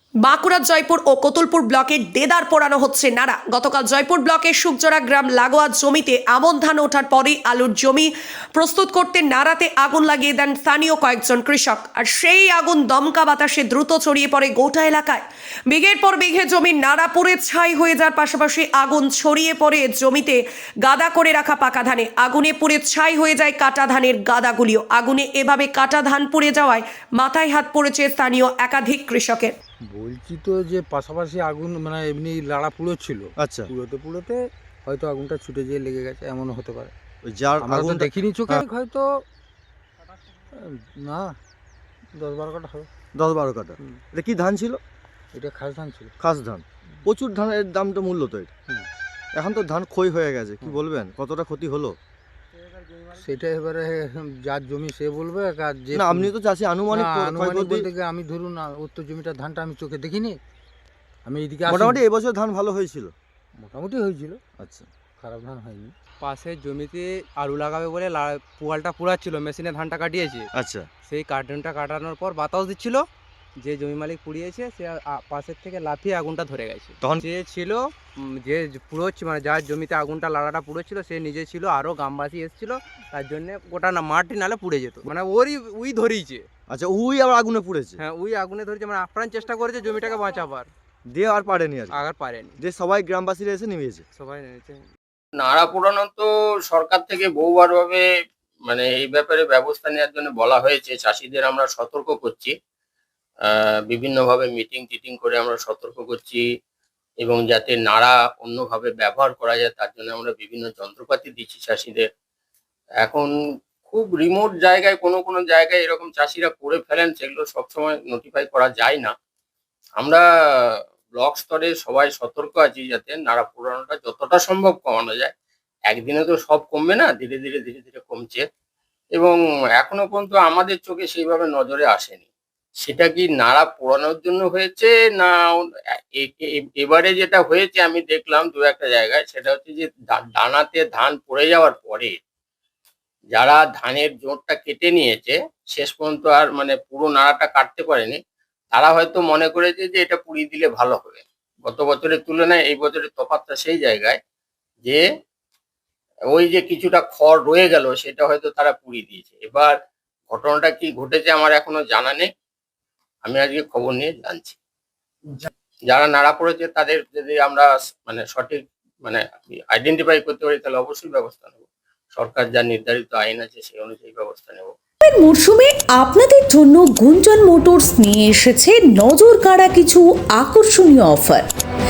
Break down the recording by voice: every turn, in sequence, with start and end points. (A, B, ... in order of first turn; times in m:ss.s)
0:00.2-0:29.5 A
0:29.9-0:36.9 B
0:33.4-0:33.7 C
0:37.2-0:38.6 C
0:37.6-0:39.2 B
0:40.5-0:41.4 B
0:42.2-0:42.9 B
0:43.1-0:44.8 C
0:45.3-0:46.1 B
0:46.2-0:48.5 C
0:49.3-0:52.0 C
0:53.2-0:56.3 B
0:55.9-0:57.9 C
0:56.9-1:00.4 B
1:01.3-1:02.0 B
1:01.7-1:03.1 C
1:03.6-1:04.4 B
1:04.6-1:04.9 C
1:05.2-1:06.0 B
1:06.2-1:10.5 D
1:10.5-1:10.9 C
1:11.1-1:13.0 D
1:13.6-1:26.5 D
1:26.7-1:28.0 C
1:28.0-1:30.7 D
1:31.1-1:32.0 C
1:31.9-1:32.6 D
1:32.6-1:34.0 C
1:34.2-1:34.9 D
1:35.4-1:38.0 E
1:38.7-1:42.5 E
1:43.5-1:46.4 E
1:47.2-1:52.1 E
1:53.0-1:53.3 E
1:53.9-1:59.1 E
2:00.0-2:00.2 E
2:01.2-2:05.3 E
2:05.9-2:08.4 E
2:09.2-2:12.3 E
2:12.8-2:22.2 E
2:23.4-2:28.2 E
2:28.7-2:34.2 E
2:36.3-2:39.7 E
2:40.3-2:42.3 E
2:43.2-2:44.6 E
2:45.9-2:51.6 E
2:52.1-2:54.7 E
2:55.0-3:01.5 F